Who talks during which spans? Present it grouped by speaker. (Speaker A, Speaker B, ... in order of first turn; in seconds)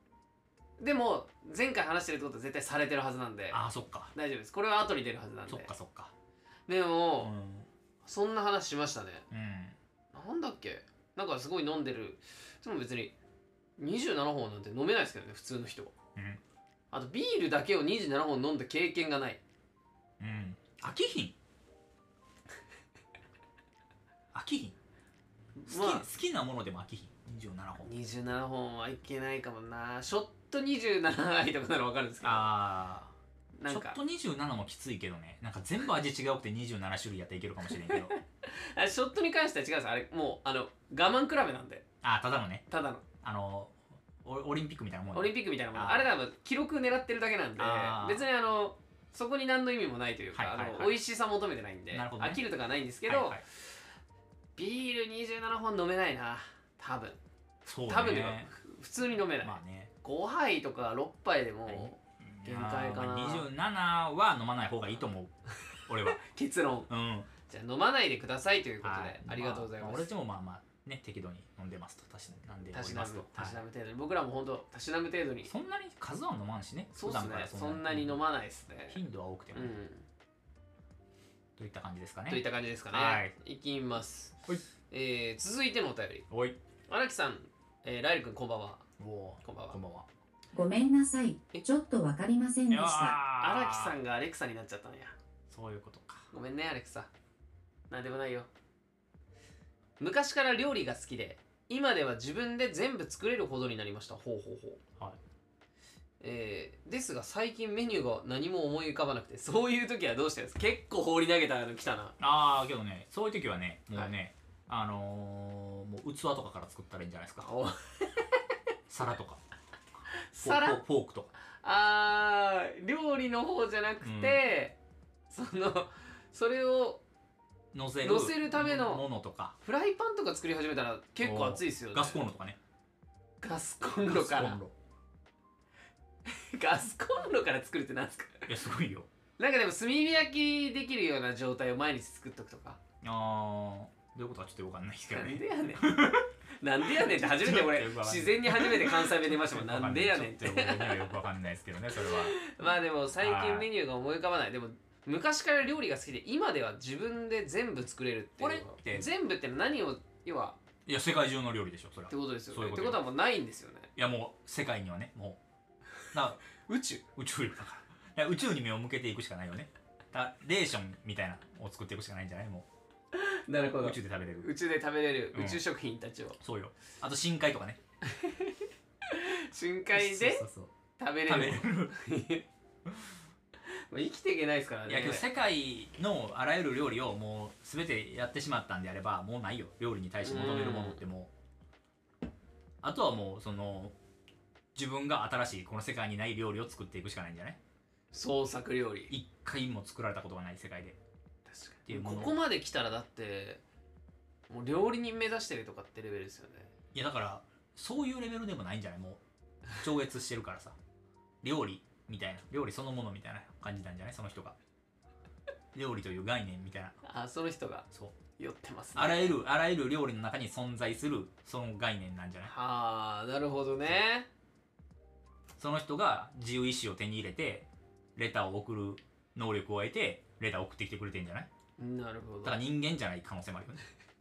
Speaker A: 0.8-3.6, 4.1-5.7, 6.7-7.3, 8.0-9.2, 10.1-13.1, 13.8-15.9, 16.9-19.4, 25.6-26.1, 27.8-32.5, 33.6-34.0, 37.9-41.9, 42.7-43.0, 45.1-53.4, 54.6-57.2, 57.9-63.5, 66.0-66.9, 67.5-70.1, 72.7-75.5, 76.9-79.0, 79.5-80.0, 82.3-84.4, 84.9-86.2, 86.9-88.8, 89.4-89.8, 93.4-95.2, 96.3-97.1, 97.9-98.5, 100.0-104.8, 106.2-112.2, 117.4-118.4, 120.2-120.8, 121.6-124.8, 125.3-127.0, 128.0-129.0, 129.6-132.2, 133.4-134.6, 136.2-138.5, 139.4-142.8, 145.1-145.9, 146.6-151.1, 151.9-160.6, 162.1-163.9, 166.6-167.0, 173.1-176.4, 178.1-180.4, 180.9-182.5, 183.7-185.3, 190.2-191.0, 198.1-199.1, 201.5-203.6, 204.5-206.7, 217.0-219.4, 222.4-224.3, 231.8-232.6
Speaker B: 3.5-4.1, 5.5-6.1, 7.2-7.7, 9.3-9.8, 16.2-16.4, 20.2-21.4, 24.3-24.8, 25.7-27.9, 32.2-33.1, 33.7-38.1, 42.0-42.6, 43.2-46.1, 47.6-48.2, 50.3-51.0, 51.9-52.4, 53.1-53.4, 57.6-58.5, 59.4-59.9, 61.7-65.3, 65.9-66.2, 66.9-67.3, 68.8-73.6, 75.5-78.2, 78.9-79.8, 81.6-83.3, 86.3-86.6, 89.0-90.1, 92.7-94.0, 95.5-96.3, 112.2-117.5, 118.9-119.4, 120.0-121.3, 124.0-124.4, 127.7-129.6, 131.2-132.6, 134.0-134.7, 138.5-139.1, 143.0-146.3, 146.8-152.4, 153.2-153.7, 158.4-159.1, 160.9-163.0, 164.0-165.4, 166.1-166.4, 167.2-172.7, 173.5-174.5, 175.3-175.6, 176.4-177.8, 179.9-180.8, 181.3-181.9, 184.9-191.3, 192.8-193.9, 194.8-197.6, 199.1-201.0, 201.9-202.4, 206.9-209.2, 209.7-210.8, 211.4-214.6, 215.7-217.0, 218.9-222.5, 225.6-231.5, 232.4-233.8
Speaker C: 90.5-93.2